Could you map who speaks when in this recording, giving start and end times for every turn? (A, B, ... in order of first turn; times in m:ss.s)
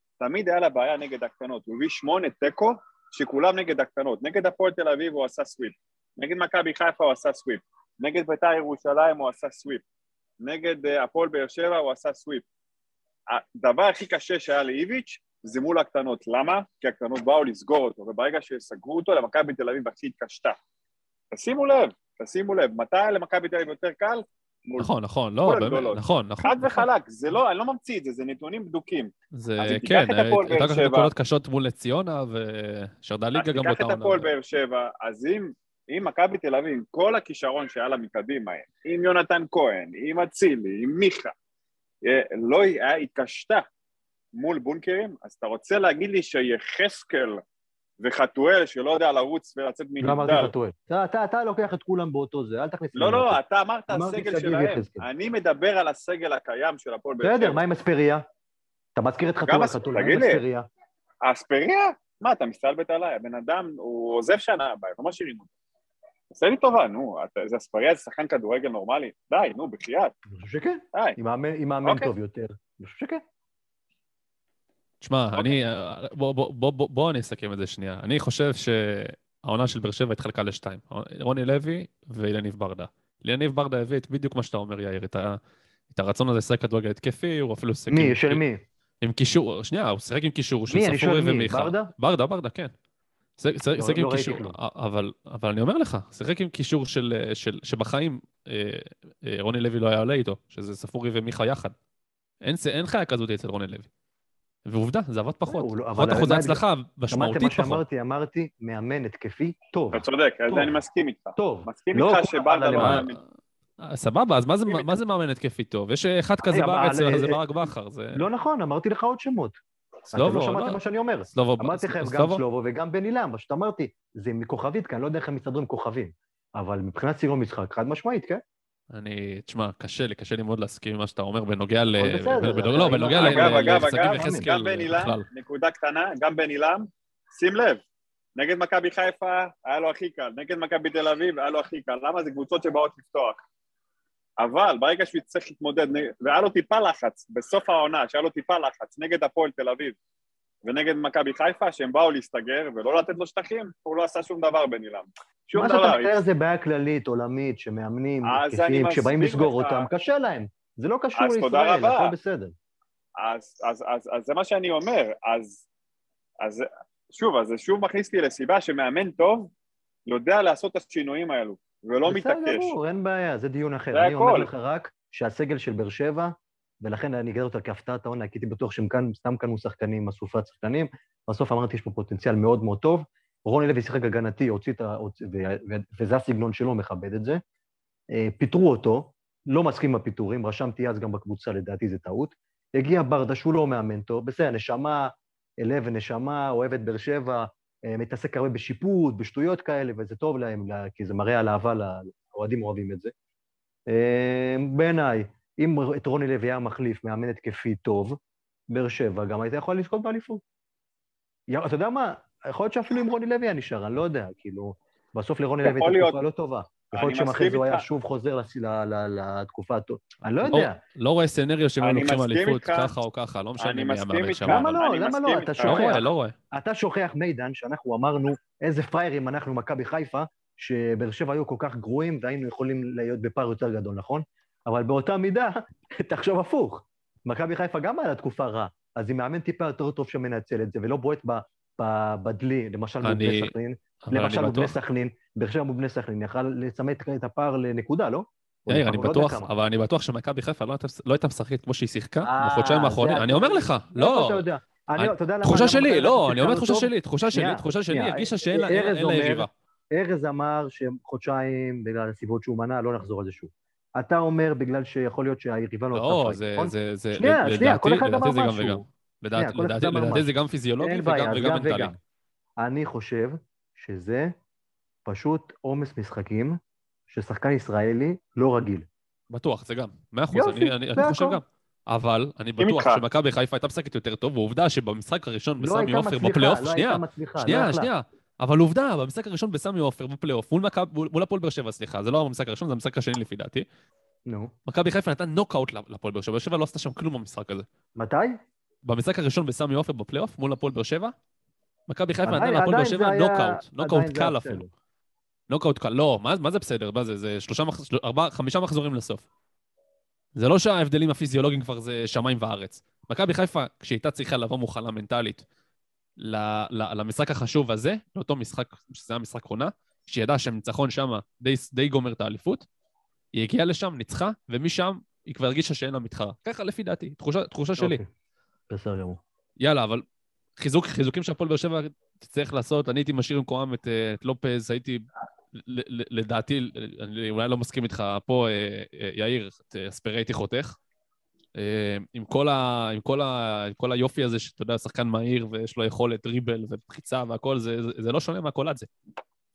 0:00.2-0:09.8 A
0:10.4-0:12.4 A
0:13.3-0:20.6 A
0:21.3-0:24.9 A
0:24.8-0:26.9 B
0:25.4-0:31.1 A
0:29.3-0:34.3 B
0:33.4-0:41.3 A
0:42.0-0:43.7 A
0:44.3-0:47.4 A
0:48.0-0:50.5 A
0:50.0-0:55.1 C
0:52.9-0:57.6 A
0:57.2-0:58.2 C
0:59.0-1:00.7 C
0:59.5-1:00.4 A
1:01.2-1:05.5 A
1:06.3-1:10.1 A
1:10.3-1:13.2 C
1:11.8-1:12.1 A
1:15.0-1:25.4 B
1:25.9-1:28.4 B
1:27.9-1:28.6 C
1:29.0-1:32.7 B
1:30.7-1:31.9 C
1:33.4-1:41.7 B
1:33.8-1:34.6 C
1:42.4-1:43.9 B
1:44.7-1:47.8 B
1:45.5-1:50.8 C
1:49.9-1:53.2 A
1:51.4-1:53.0 C
1:52.8-1:53.1 B
1:53.8-1:58.2 B
1:56.4-1:59.6 C
2:00.1-2:08.4 C
2:00.1-2:00.8 B
2:01.3-2:02.4 B
2:08.9-2:15.3 B
2:11.9-2:14.5 C
2:13.2-2:17.8 A
2:18.4-2:23.4 A
2:24.4-2:30.0 A
2:30.6-2:36.1 A
2:35.5-2:42.5 C
2:38.2-2:39.9 A
2:41.2-2:42.1 A
2:43.2-2:45.6 A
2:46.4-2:49.5 A
2:50.1-2:52.8 A
2:52.1-3:07.4 C
2:53.9-2:54.5 A
3:08.1-3:23.1 C
3:23.9-3:28.2 C
3:28.7-3:30.4 C
3:31.5-3:40.8 C
3:35.6-3:36.2 A
3:36.9-3:37.8 A
3:40.4-3:44.8 B
3:41.8-3:42.9 A
3:43.6-3:46.0 A
3:44.4-4:09.5 C
3:45.6-3:46.4 B
4:03.0-4:04.8 B
4:08.7-4:14.4 B
4:12.2-4:32.0 C
4:15.0-4:19.5 B
4:25.9-4:31.9 B
4:32.6-4:34.3 C
4:35.1-4:36.6 C
4:37.1-4:38.9 C
4:39.3-4:53.7 B
4:40.3-4:41.4 C
4:42.6-4:43.0 A
4:45.6-4:47.9 C
4:54.3-4:54.5 C
4:54.7-4:57.7 B
4:58.0-4:58.4 C
4:58.8-5:01.2 B
5:01.9-5:04.6 B
5:02.2-5:04.7 C
5:05.5-5:09.3 B
5:10.4-5:15.4 B
5:16.2-5:22.6 B
5:23.3-5:28.0 B
5:27.8-5:28.1 C
5:28.7-5:29.2 C
5:29.6-5:30.0 B
5:30.6-5:40.8 B
5:41.6-5:48.9 B